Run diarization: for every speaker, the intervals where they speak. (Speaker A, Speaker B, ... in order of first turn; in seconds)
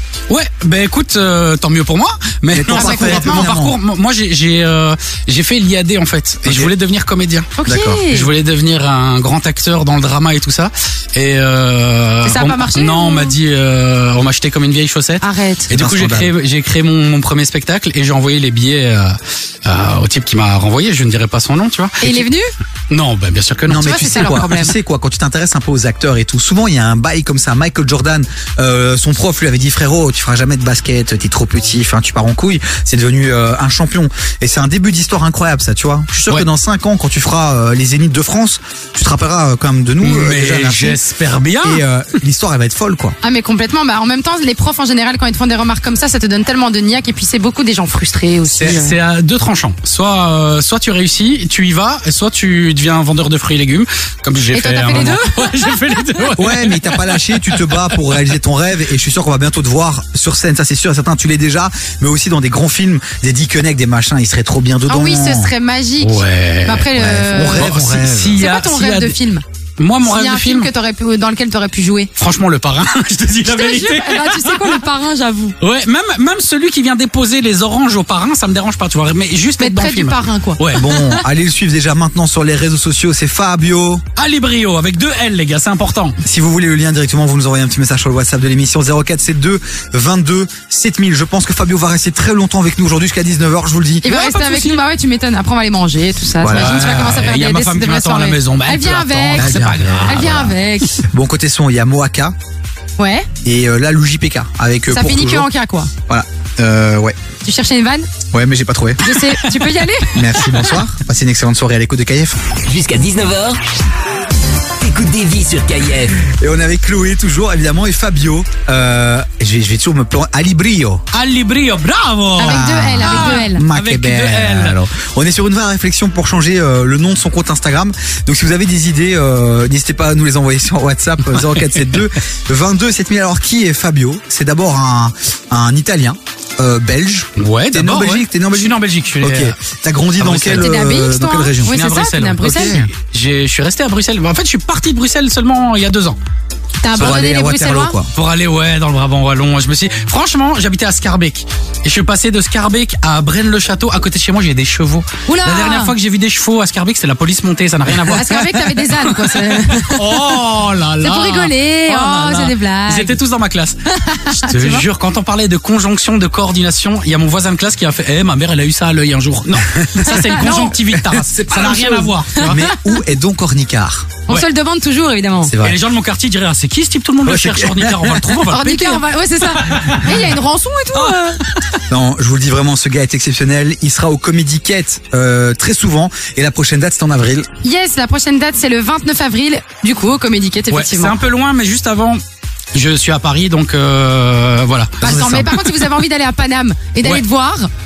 Speaker A: 0.3-7.5, 8.1-22.2, 22.9-24.0, 40.0-41.8, 48.5-56.8, 66.0-69.2, 69.8-70.7, 72.2-74.8, 75.6-81.0, 84.2-86.2, 94.0-94.8, 96.5-100.5, 121.1-124.8, 137.4-139.6, 140.2-140.8, 141.7-146.2, 148.1-163.8, 164.3-172.7, 175.6-180.2, 180.9-181.8, 190.7-192.2, 192.7-195.8
Speaker B: 2.5-3.8, 6.5-6.7, 7.7-8.0, 15.7-16.3, 23.7-41.0, 41.6-43.2, 56.4-65.5, 67.0-68.4, 80.7-84.0, 86.2-94.1, 96.4-97.1, 99.3-102.3, 103.4-105.5, 106.1-107.2, 108.3-109.3, 110.1-112.4, 116.2-121.0, 122.4-141.8, 142.4-142.9, 146.9-148.1, 171.0-174.2, 175.4-175.8, 177.3-178.3, 181.9-187.5, 195.0-195.5
Speaker C: 2.7-3.5, 7.6-8.3, 12.2-13.4, 15.2-15.7, 22.0-22.5, 23.8-24.7, 43.2-49.0, 54.5-55.7, 64.9-67.8, 68.4-69.4, 70.0-72.1, 73.4-75.5, 79.6-81.2, 94.0-101.0, 103.0-103.3, 104.9-105.9, 107.4-108.1, 109.0-110.8, 122.4-123.6, 140.5-142.8, 146.8-147.9, 155.3-155.9, 158.1-160.2, 161.0-163.2, 163.9-164.9, 170.0-170.8, 172.4-172.9, 174.3-175.5, 178.5-181.4, 187.6-191.1, 195.0-197.7
Speaker D: 112.7-113.6, 114.8-116.2